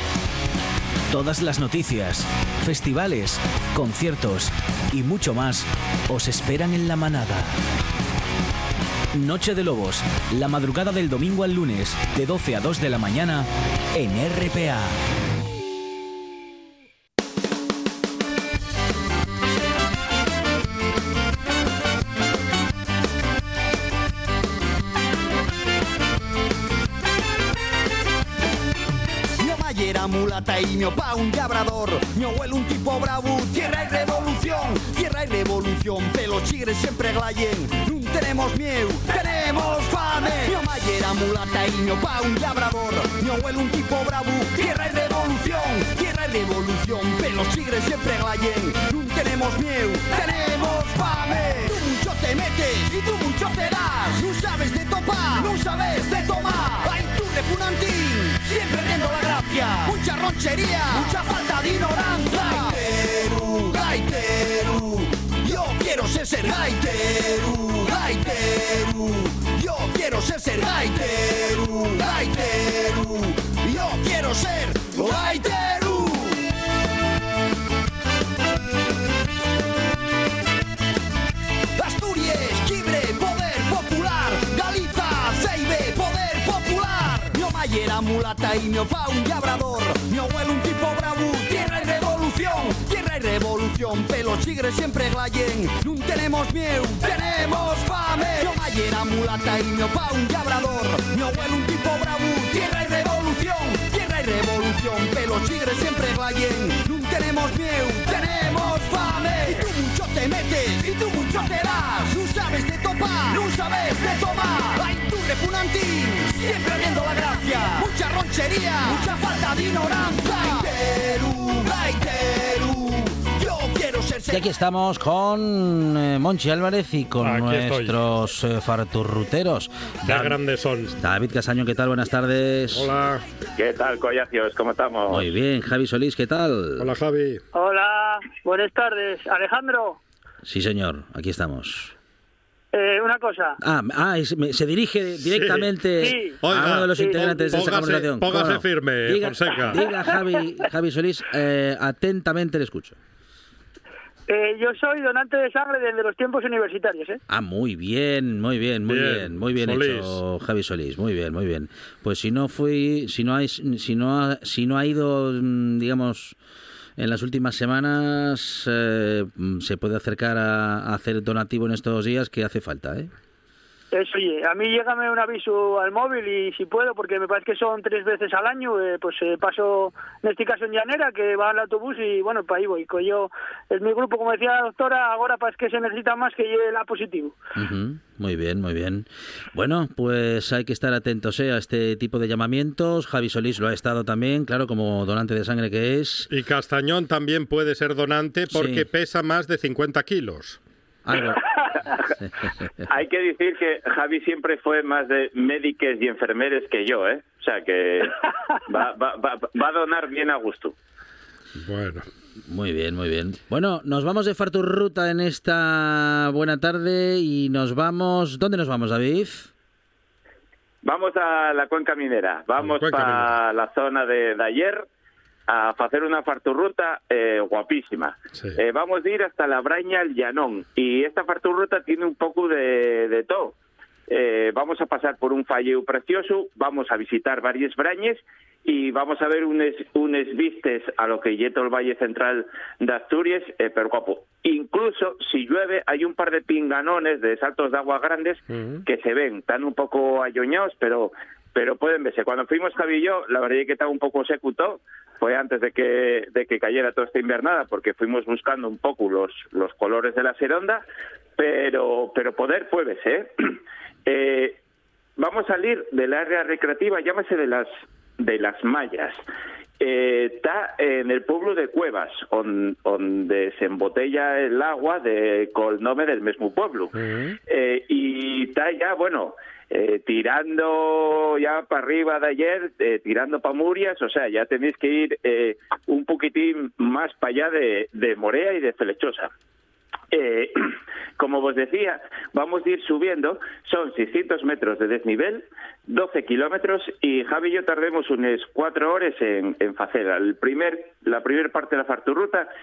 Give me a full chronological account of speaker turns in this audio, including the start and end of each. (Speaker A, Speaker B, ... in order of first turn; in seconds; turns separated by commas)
Speaker A: 1.1-7.6, Speaker A: 9.2-15.0, Speaker B: 29.4-76.5, Speaker B: 81.8-124.5, Speaker C: 124.3-130.3, Speaker D: 127.2-128.0, Speaker D: 130.1-131.0, Speaker C: 131.0-132.9, Speaker D: 132.7-133.2, Speaker E: 133.6-135.3, Speaker C: 135.1-136.8, Speaker D: 136.8-137.4, Speaker F: 137.5-140.0, Speaker C: 140.4-141.9, Speaker F: 142.7-143.6, Speaker C: 143.6-153.0, Speaker D: 145.2-145.7, Speaker F: 146.1-146.4, Speaker D: 146.4-149.9, Speaker F: 147.0-147.7, Speaker F: 149.7-150.1, Speaker F: 154.3-157.2, Speaker C: 157.3-166.4, Speaker D: 158.9-160.2, Speaker C: 167.0-173.1, Speaker F: 173.9-187.3, Speaker C: 187.6-196.3, Speaker D: 196.3-200.6, Speaker C: 198.6-198.8, Speaker C: 201.1-201.4, Speaker E: 202.9-210.7, Speaker D: 211.6-212.1, Speaker C: 212.5-219.5, Speaker E: 220.8-224.9, Speaker D: 222.6-223.4, Speaker E: 225.5-233.6, Speaker E: 234.1-260.8, Speaker D: 248.5-248.8, Speaker E: 261.4-264.6, Speaker E: 265.2-269.2, Speaker E: 269.8-276.9, Speaker D: 276.9-277.4, Speaker E: 277.5-289.3, Speaker E: 290.1-302.5